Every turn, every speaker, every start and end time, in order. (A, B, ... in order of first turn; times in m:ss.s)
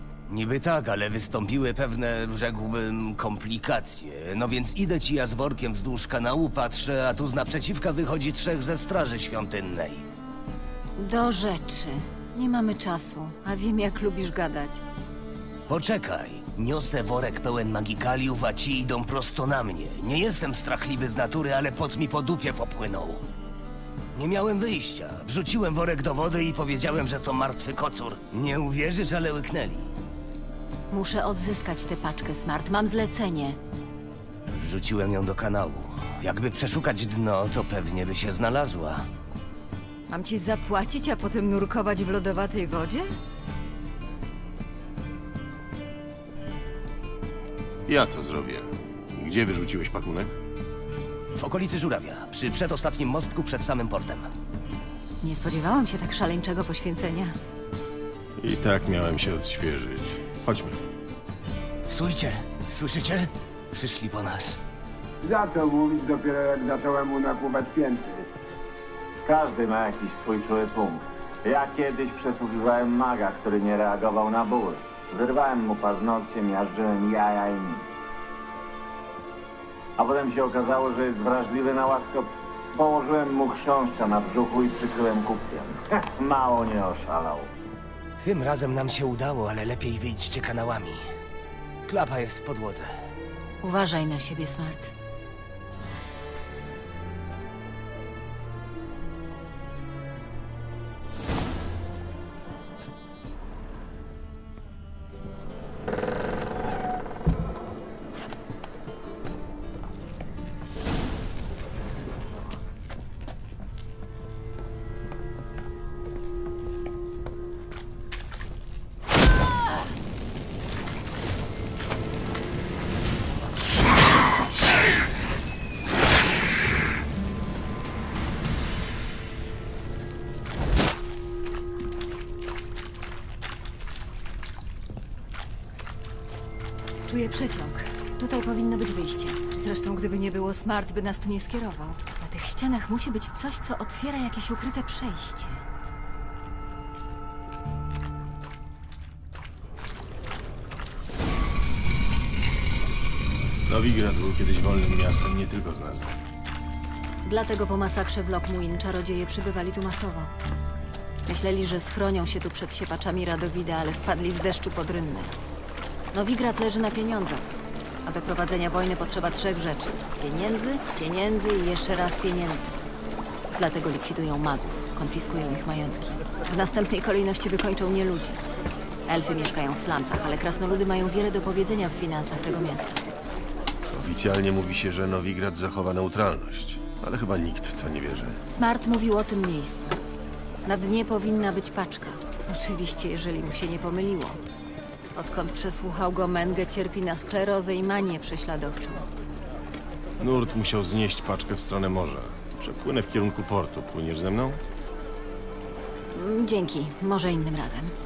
0:00.3-0:10.0 A
0:11.0-0:14.8 B
0:15.7-0:23.2 A
0:24.2-0:29.9 A
0:30.9-0:33.6 B
0:34.5-0:39.1 A
0:40.1-0:43.1 B
0:47.9-0:50.4 C
0:51.4-0:54.3 A
0:55.2-0:57.4 B
0:58.4-1:00.8 C
1:01.9-1:04.6 A
1:05.2-1:08.3 D
1:09.2-1:17.9 E
1:20.0-1:27.5 E
1:28.2-1:31.0 A
1:31.9-1:32.9 A
1:33.6-1:34.9 B
2:17.0-2:25.6 B
2:33.7-2:36.2 C
2:37.2-2:40.3 B
2:41.3-2:45.4 B
2:46.1-2:47.5 B
2:48.0-2:52.8 B
2:53.6-2:58.4 B
2:59.1-3:03.0 B
3:03.9-3:08.4 C
3:08.5-3:10.0 B
3:10.7-3:14.4 B
3:15.1-3:19.1 B
3:20.2-3:24.6 C
3:26.1-3:27.9 B